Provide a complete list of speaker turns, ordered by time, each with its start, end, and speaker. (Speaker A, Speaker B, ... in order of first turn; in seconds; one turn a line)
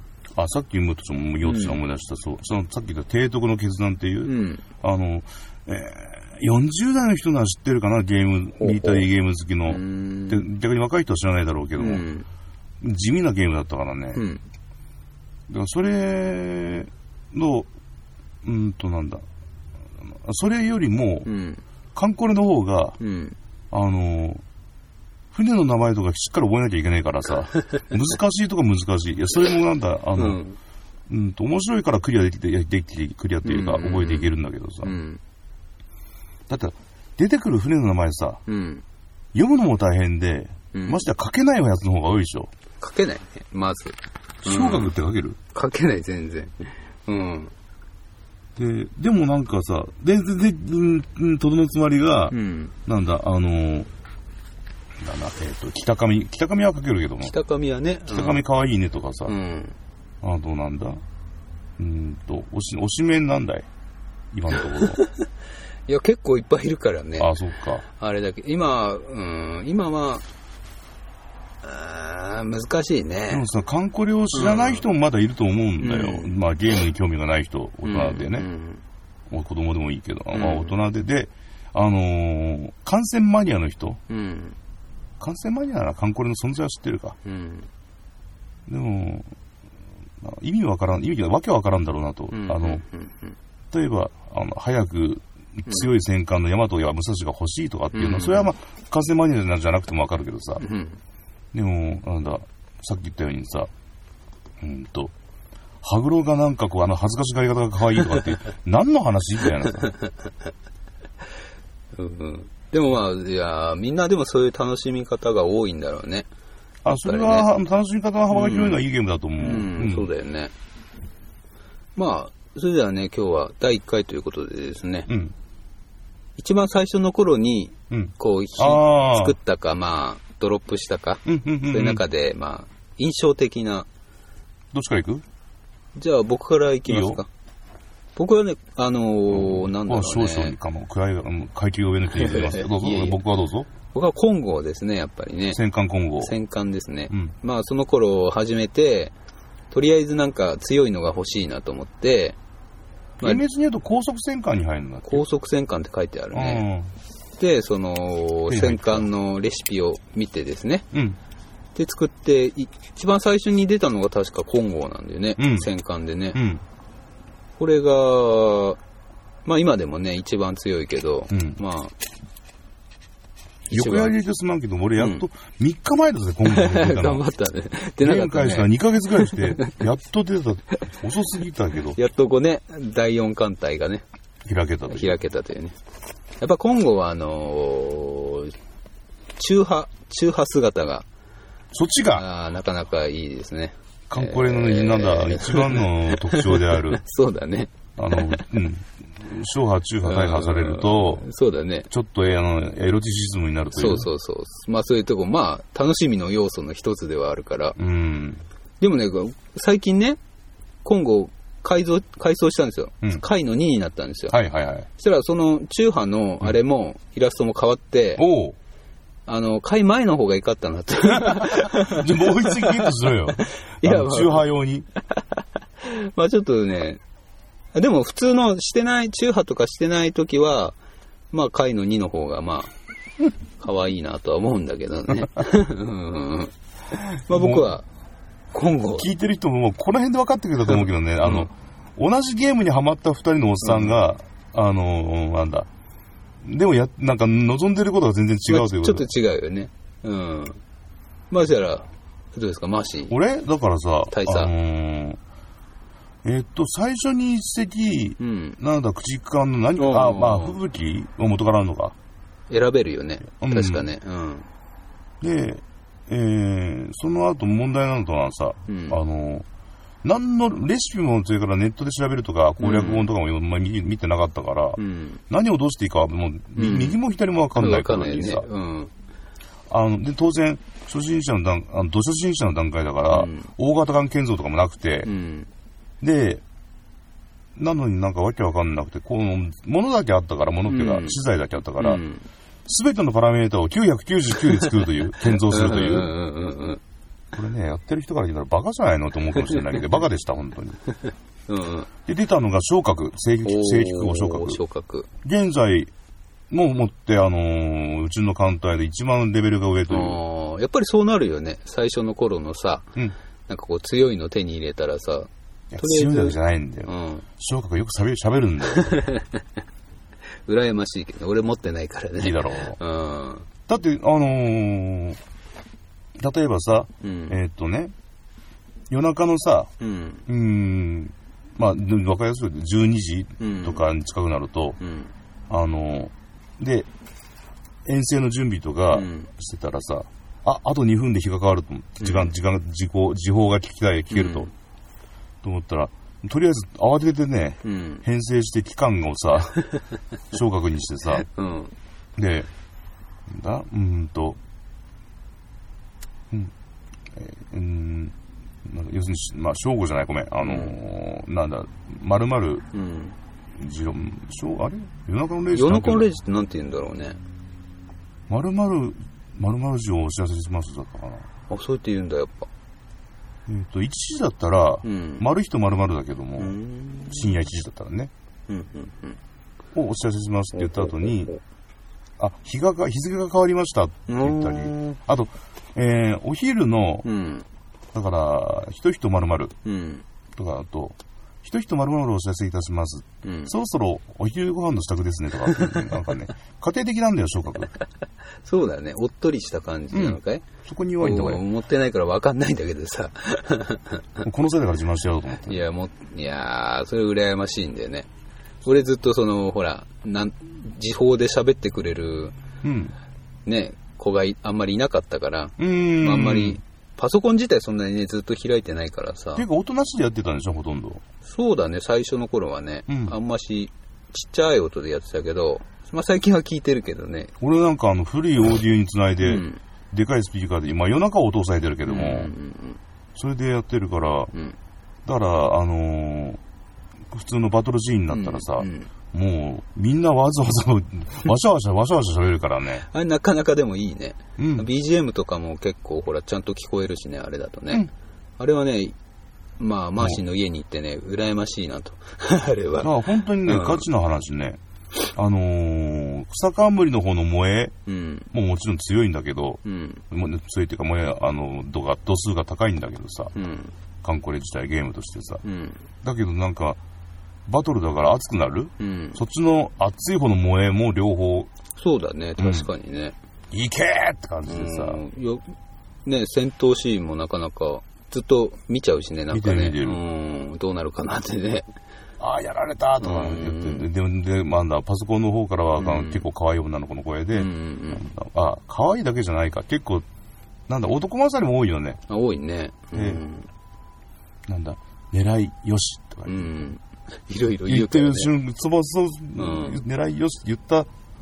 Speaker A: 0.3-12.1
Speaker B: 1.4-1.8
Speaker B: 4.2-4.6
Speaker B: 8.6-9.1
Speaker B: 9.7-10.4
Speaker B: 11.8-12.3
Speaker A: 12.8-14.2
Speaker B: 14.2-14.4
Speaker A: 15.5-17.7
Speaker A: 18.4-19.2
Speaker A: 20.0-21.3
Speaker B: 21.2-21.6
Speaker A: 21.9-23.0
Speaker B: 23.0-23.4
Speaker A: 23.7-24.4
Speaker A: 25.3-30.4
Speaker B: 30.2-30.6
Speaker A: 31.1-34.9
Speaker B: 33.4-34.3
Speaker B: 34.8-35.2
Speaker A: 36.5-38.4
Speaker B: 38.5-38.8
Speaker A: 39.3-42.5
Speaker B: 40.7-41.0
Speaker B: 42.8-44.9
Speaker A: 44.4-45.4
Speaker B: 45.5-47.5
Speaker A: 48.6-52.4
Speaker B: 52.3-52.8
Speaker A: 52.9-53.9
Speaker A: 55.0-57.3
Speaker B: 57.2-58.4
Speaker A: 58.1-59.4
Speaker B: 59.3-59.8
Speaker A: 60.2-61.0
Speaker A: 61.8-63.7
Speaker A: 64.3-65.0
Speaker B: 64.8-65.1
Speaker B: 65.9-67.3
Speaker A: 67.2-67.8
Speaker B: 67.9-70.2
Speaker B: 71.6-73.5
Speaker A: 73.3-78.5
Speaker B: 74.3-74.8
Speaker B: 75.8-76.4
Speaker B: 77.8-78.8
Speaker A: 79.3-84.0
Speaker B: 80.3-80.8
Speaker B: 84.1-84.6
Speaker A: 85.2-87.2
Speaker B: 87.2-87.7
Speaker A: 88.7-89.3
Speaker A: 90.2-92.8
Speaker B: 92.3-93.4
Speaker A: 93.7-100.6
Speaker B: 97.9-98.5
Speaker B: 100.6-101.0
Speaker A: 101.5-103.7
Speaker A: 104.6-105.1
Speaker A: 105.8-109.9
Speaker B: 109.8-110.1
Speaker B: 112.0-116.3
Speaker A: 116.8-120.1
Speaker B: 117.0-117.5
Speaker B: 118.3-118.8
Speaker B: 119.4-120.5
Speaker B: 122.0-125.1
Speaker A: 125.1-125.3
Speaker B: 126.4-133.9
Speaker A: 127.9-129.4
Speaker A: 131.3-132.0
Speaker A: 134.7-135.2
Speaker B: 136.0-137.3
Speaker A: 136.9-137.2
Speaker B: 138.2-140.6
Speaker A: 139.3-143.7
Speaker B: 142.1-143.2
Speaker B: 143.9-145.6
Speaker A: 145.5-146.3
Speaker B: 146.2-149.1
Speaker B: 149.7-152.4
Speaker A: 153.2-155.2
Speaker B: 155.1-156.7
Speaker A: 156.3-156.9
Speaker B: 157.4-160.9
Speaker A: 158.5-159.1
Speaker A: 160.9-161.2
Speaker B: 161.8-166.4
Speaker A: 165.4-165.7
Speaker A: 166.3-166.6
Speaker B: 167.6-168.8
Speaker B: 169.4-171.9
Speaker A: 171.3-171.6
Speaker B: 173.7-174.1
Speaker A: 173.7-177.2
Speaker B: 175.0-175.2
Speaker B: 176.4-179.8
Speaker A: 178.0-182.0
Speaker B: 181.9-184.0
Speaker A: 184.5-185.2
Speaker B: 184.9-185.8
Speaker B: 186.4-188.5
Speaker B: 189.4-191.1
Speaker A: 191.7-192.2
Speaker B: 192.1-198.4
Speaker A: 194.1-197.0
Speaker A: 198.0-201.2
Speaker B: 200.0-201.9
Speaker A: 201.9-204.1
Speaker B: 203.8-207.8
Speaker A: 207.8-208.4
Speaker B: 208.8-210.2
Speaker B: 210.8-214.4
Speaker A: 214.3-214.9
Speaker B: 215.0-218.2
Speaker A: 218.2-218.6
Speaker B: 219.3-224.5
Speaker A: 221.1-224.9
Speaker B: 225.8-227.0
Speaker B: 227.7-230.8
Speaker B: 231.3-232.7
Speaker B: 233.6-237.9
Speaker A: 237.3-237.7
Speaker B: 238.5-239.1
Speaker A: 239.0-245.7
Speaker B: 243.6-244.0
Speaker A: 246.4-249.1
Speaker B: 248.5-250.6
Speaker B: 251.3-253.2
Speaker A: 253.1-255.2
Speaker B: 254.1-254.5
Speaker A: 256.2-261.9
Speaker B: 258.2-258.6
Speaker B: 259.8-260.6
Speaker B: 262.5-264.5
Speaker A: 263.4-263.9
Speaker A: 265.2-269.5
Speaker B: 268.7-269.0
Speaker A: 270.0-278.5
Speaker B: 272.6-273.1
Speaker B: 274.8-275.2
Speaker B: 276.6-277.0
Speaker B: 277.6-278.9
Speaker A: 279.7-285.1
Speaker B: 283.1-283.5
Speaker B: 285.1-285.5
Speaker A: 286.0-286.4
Speaker A: 287.6-292.0
Speaker B: 290.7-291.2
Speaker B: 291.8-292.2
Speaker A: 292.7-296.1
Speaker B: 295.2-296.8
Speaker A: 297.3-300.8
Speaker B: 301.5-301.9
Speaker A: 302.1-304.6
Speaker B: 303.4-305.1
Speaker A: 305.2-305.9
Speaker A: 306.5-310.2
Speaker B: 309.9-313.0
Speaker B: 313.5-317.3
Speaker A: 315.7-319.0
Speaker B: 318.7-319.4
Speaker B: 320.5-323.5
Speaker A: 322.2-322.8
Speaker A: 323.7-325.2
Speaker A: 326.2-327.9
Speaker B: 327.0-327.4
Speaker A: 328.9-329.7
Speaker B: 329.8-330.2
Speaker A: 330.3-334.8
Speaker B: 333.4-333.8
Speaker B: 334.8-335.1
Speaker A: 335.5-336.9
Speaker A: 337.9-344.5
Speaker B: 338.9-339.3
Speaker B: 342.0-342.3
Speaker B: 344.1-344.5
Speaker A: 345.4-349.6
Speaker B: 347.6-348.0
Speaker A: 350.3-351.3
Speaker B: 351.3-351.7
Speaker A: 352.2-352.5
Speaker A: 353.3-354.4
Speaker A: 357.1-362.6
Speaker B: 360.4-360.8
Speaker B: 362.7-363.1
Speaker A: 363.6-366.1
Speaker B: 365.5-367.2
Speaker A: 368.3-371.3
Speaker B: 371.5-372.5
Speaker A: 373.5-376.6
Speaker B: 374.8-375.3
Speaker B: 376.4-377.3
Speaker A: 377.1-378.1
Speaker B: 378.5-379.2
Speaker A: 379.7-381.3
Speaker B: 380.6-381.4
Speaker A: 382.2-387.1
Speaker B: 384.1-385.0
Speaker B: 387.0-387.5
Speaker A: 387.9-389.6
Speaker B: 389.6-390.1
Speaker A: 390.4-397.7
Speaker B: 393.2-393.5
Speaker B: 395.5-395.9
Speaker B: 398.4-400.5
Speaker A: 399.9-401.4
Speaker B: 401.0-404.2
Speaker A: 404.2-405.6
Speaker B: 405.5-408.1
Speaker B: 408.6-412.4
Speaker A: 412.6-412.9
Speaker B: 413.5-419.5
Speaker A: 415.6-416.6
Speaker A: 419.4-421.0
Speaker B: 421.2-427.3
Speaker A: 422.9-423.1
Speaker A: 427.4-432.3
Speaker B: 429.2-429.6
Speaker B: 431.9-432.8
Speaker A: 433.1-434.3
Speaker A: 435.1-436.4
Speaker A: 437.1-442.9
Speaker B: 438.1-438.9
Speaker B: 442.9-447.9
Speaker A: 444.4-444.7
Speaker B: 448.4-449.0
Speaker B: 449.6-452.9
Speaker A: 452.8-454.6
Speaker B: 453.4-453.9
Speaker A: 455.1-457.8
Speaker B: 457.9-458.3
Speaker A: 458.3-463.3
Speaker B: 459.6-460.0
Speaker B: 463.4-463.7
Speaker A: 464.0-465.4
Speaker B: 465.4-465.9
Speaker A: 466.0-466.8
Speaker A: 467.5-471.5
Speaker B: 468.8-469.2
Speaker B: 471.8-473.1
Speaker A: 472.4-472.7
Speaker A: 473.5-475.0
Speaker B: 474.5-475.4
Speaker B: 476.1-481.7
Speaker A: 479.3-480.0
Speaker A: 482.2-490.1
Speaker B: 483.0-483.9
Speaker B: 485.8-486.3
Speaker B: 487.4-488.1
Speaker A: 490.7-492.0
Speaker B: 492.1-493.5
Speaker A: 492.9-493.2
Speaker A: 494.5-496.5
Speaker B: 496.3-498.3
Speaker A: 497.7-500.9
Speaker B: 499.4-499.8